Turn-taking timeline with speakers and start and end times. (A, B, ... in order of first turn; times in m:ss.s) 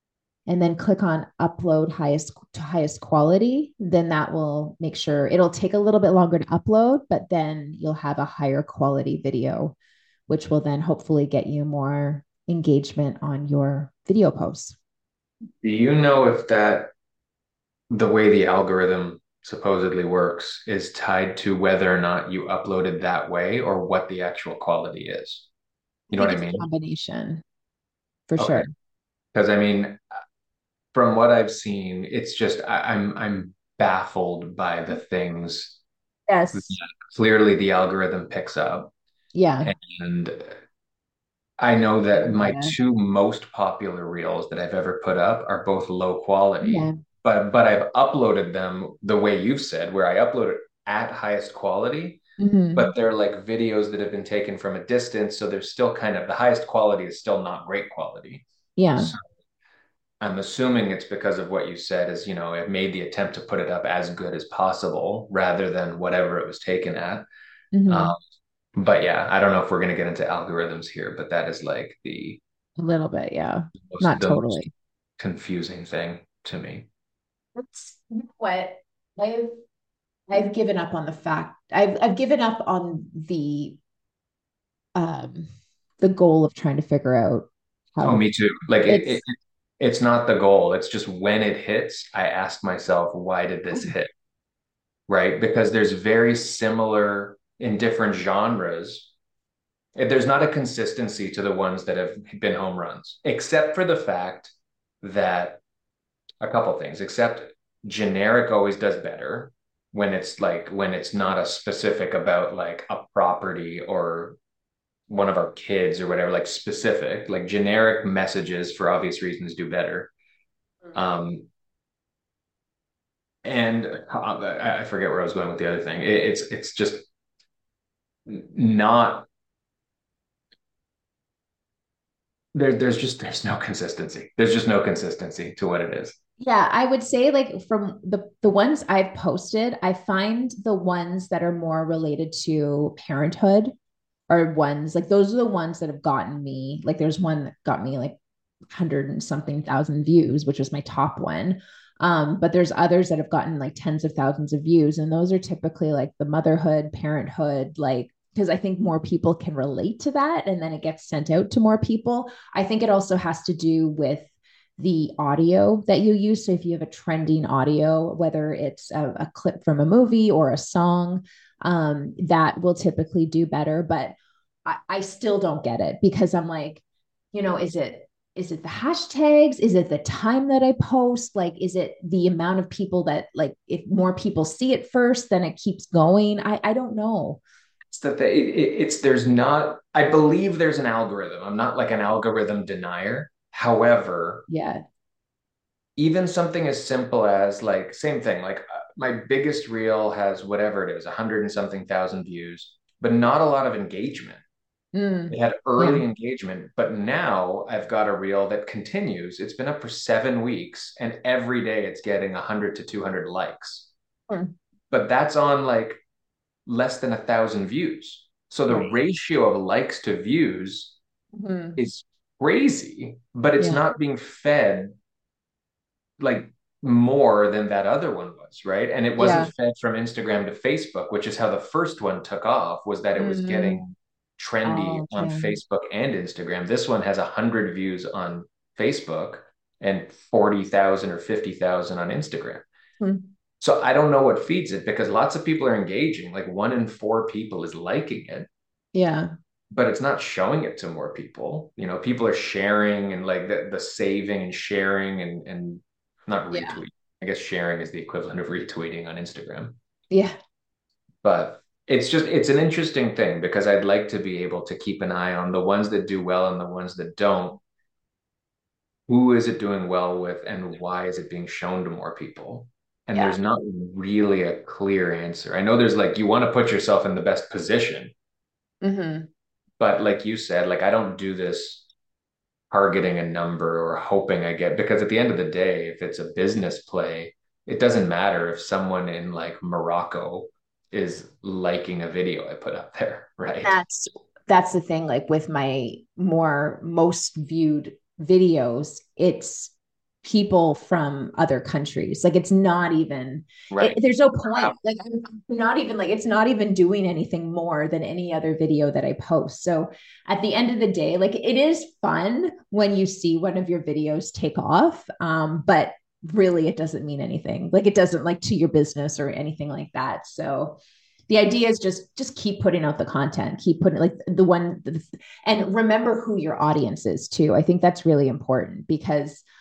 0:00.5-0:09.8 A
0:10.3-0:14.8 A
0:15.6-0:16.9 B
0:17.9-0:25.5 B
0:26.1-0:26.6 B
0:26.1-0:27.4 A
0:28.3-0:28.7 A
0:28.4-0:28.7 B
0:29.3-0:30.0 B
0:30.9-0:35.8 B
0:36.3-0:36.8 A
0:36.5-0:38.9 B
0:39.3-0:39.7 A
0:39.6-0:40.6 B
0:41.6-0:52.2 B
0:42.1-0:42.8 A
0:46.6-0:47.0 A
0:52.4-0:52.9 A
0:52.8-0:59.2 B
0:58.8-0:59.1 A
1:00.2-1:07.3 B
1:07.7-1:08.2 A
1:07.9-1:08.2 B
1:08.8-1:12.4 B
1:12.8-1:14.7 A
1:13.9-1:14.6 B
1:15.2-1:16.9 B
1:17.6-1:19.6 A
1:20.3-1:23.8 A
1:25.0-1:28.2 A
1:28.0-1:34.1 B
1:28.9-1:29.2 A
1:35.1-1:39.1 B
1:40.0-1:45.6 B
1:46.4-1:54.4 B
1:55.1-2:00.1 B
2:00.9-2:01.5 B
2:03.4-2:07.1 B
2:08.3-2:09.3 B
2:12.6-2:16.2 B
2:16.4-2:23.7 A
2:24.3-2:28.2 A
2:28.7-3:07.4 A
3:07.9-3:14.5 B
3:14.5-3:14.8 A
3:16.0-3:24.4 B
3:24.9-3:26.0 A
3:25.3-3:33.9 B
3:34.9-3:36.0 B
3:36.7-3:41.0 B
3:41.3-3:41.8 A
3:41.8-3:45.0 B
3:46.2-3:53.9 B
3:49.2-3:49.5 A
3:53.2-3:53.9 A
3:54.4-4:02.7 B
3:54.6-3:55.5 A
4:03.0-4:03.3 A
4:03.6-4:08.5 B
4:08.9-4:09.3 A
4:09.7-4:19.8 B
4:16.5-4:16.8 A
4:20.1-4:20.4 A
4:21.2-4:27.6 B
4:29.1-4:38.1 B
4:38.8-4:39.3 A
4:39.8-4:41.8 B
4:42.7-4:53.8 B
4:53.6-5:20.8 A
5:03.7-5:04.8 B
5:21.3-5:29.4 A